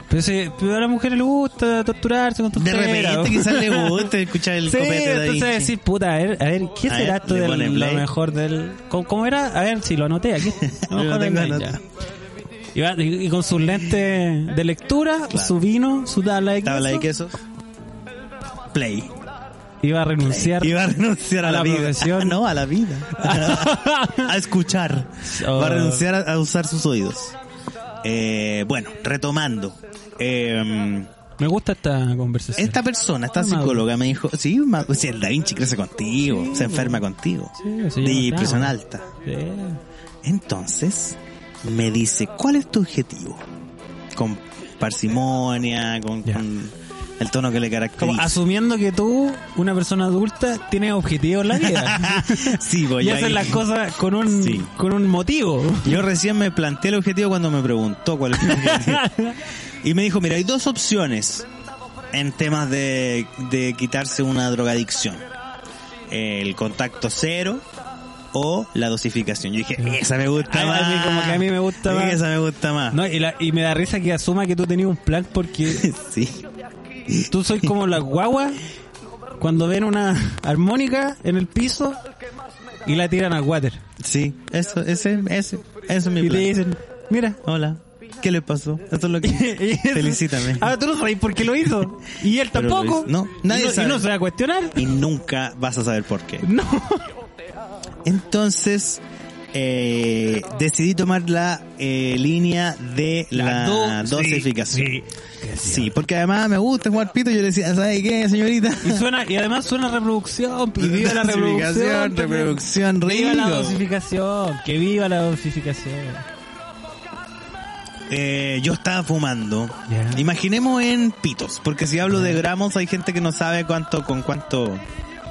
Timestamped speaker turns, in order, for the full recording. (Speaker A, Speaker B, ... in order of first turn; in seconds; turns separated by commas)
Speaker A: 0.1-4.1, Speaker B: 2.5-5.7, Speaker A: 4.6-11.8, Speaker B: 6.9-8.1, Speaker B: 10.6-11.8, Speaker A: 12.7-17.1, Speaker B: 15.3-15.6, Speaker B: 16.6-17.4, Speaker B: 18.7-19.1, Speaker A: 19.8-20.8, Speaker B: 20.2-27.4, Speaker A: 21.4-22.4, Speaker A: 23.1-24.3, Speaker A: 25.2-26.1, Speaker B: 28.0-31.1, Speaker A: 31.4-32.8, Speaker B: 32.6-39.1, Speaker A: 33.3-33.8, Speaker A: 36.3-37.0, Speaker A: 37.6-39.8, Speaker B: 40.2-43.4, Speaker B: 44.1-48.4, Speaker A: 48.0-56.0, Speaker B: 51.5-53.6, Speaker B: 54.3-54.7, Speaker B: 55.8-59.0, Speaker A: 58.4-59.4, Speaker B: 59.8-61.5, Speaker B: 62.1-65.2, Speaker B: 66.1-67.6, Speaker B: 68.3-73.0, Speaker A: 69.8-72.2, Speaker A: 72.9-75.9, Speaker B: 75.7-76.4, Speaker B: 77.1-77.7, Speaker A: 77.3-78.6, Speaker A: 79.4-82.0, Speaker A: 82.8-83.8, Speaker B: 84.0-86.5, Speaker A: 86.2-87.4, Speaker B: 87.4-90.7, Speaker A: 89.2-94.8, Speaker B: 92.5-94.1, Speaker B: 94.8-96.5, Speaker A: 96.4-97.1, Speaker B: 98.0-99.0, Speaker B: 99.5-105.0, Speaker A: 103.3-105.9, Speaker B: 105.6-109.0, Speaker A: 108.8-116.2, Speaker B: 110.8-113.8, Speaker B: 118.1-124.8, Speaker A: 119.9-120.2, Speaker A: 122.1-122.4